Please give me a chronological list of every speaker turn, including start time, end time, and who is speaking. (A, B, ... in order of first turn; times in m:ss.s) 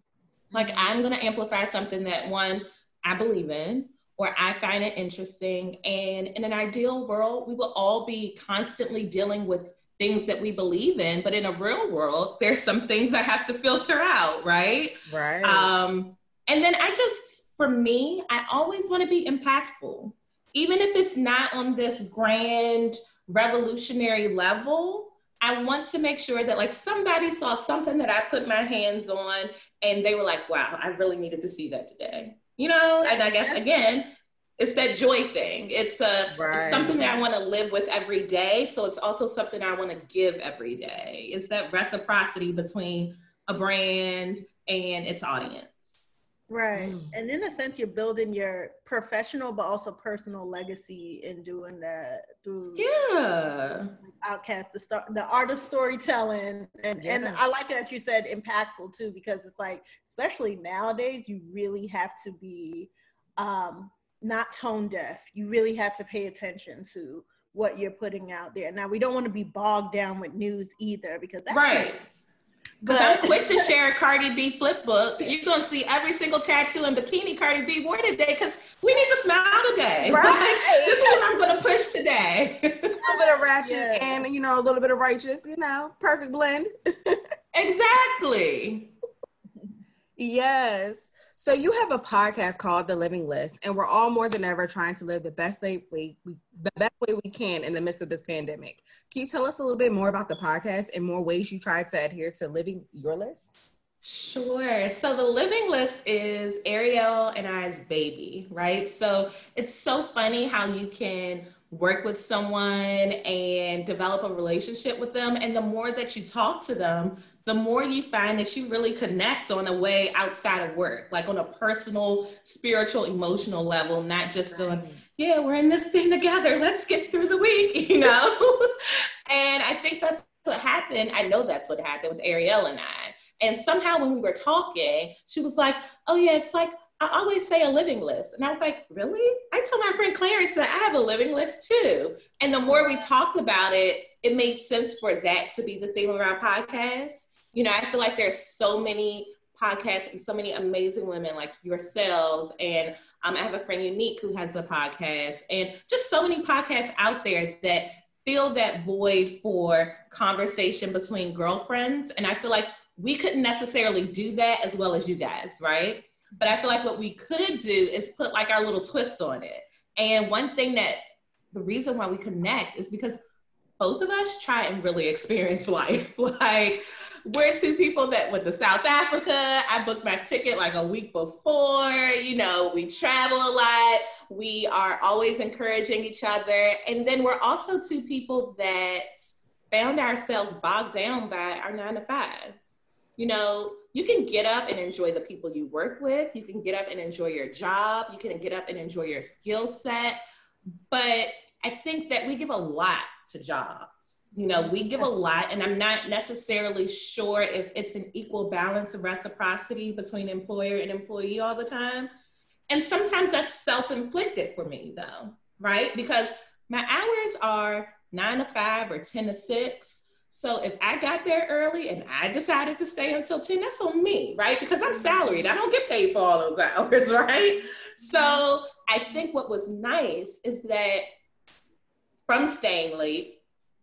0:00.5-0:00.9 A
0:00.5-0:46.1 B
0:15.1-0:15.7 C
0:33.0-0:33.6 A
0:36.3-0:37.0 C
0:46.5-0:52.9 A
0:46.8-0:47.1 C
0:52.8-0:53.9 B
0:54.0-1:11.9 A
0:57.0-0:57.4 C
1:11.5-1:12.0 B
1:12.8-1:23.0 B
1:12.8-1:13.7 A
1:20.0-1:21.3 C
1:23.0-1:24.2 A
1:23.0-1:27.2 C
1:27.5-1:28.9 B
1:30.2-1:43.6 C
1:44.0-2:51.0 B
2:04.5-2:05.0 C
2:51.5-2:53.2 B
2:53.8-3:09.1 B
3:09.7-3:20.2 B
3:20.9-3:32.1 B
3:32.7-3:51.0 B
3:44.9-3:45.4 A
3:48.0-3:48.4 A
3:52.3-3:53.4 B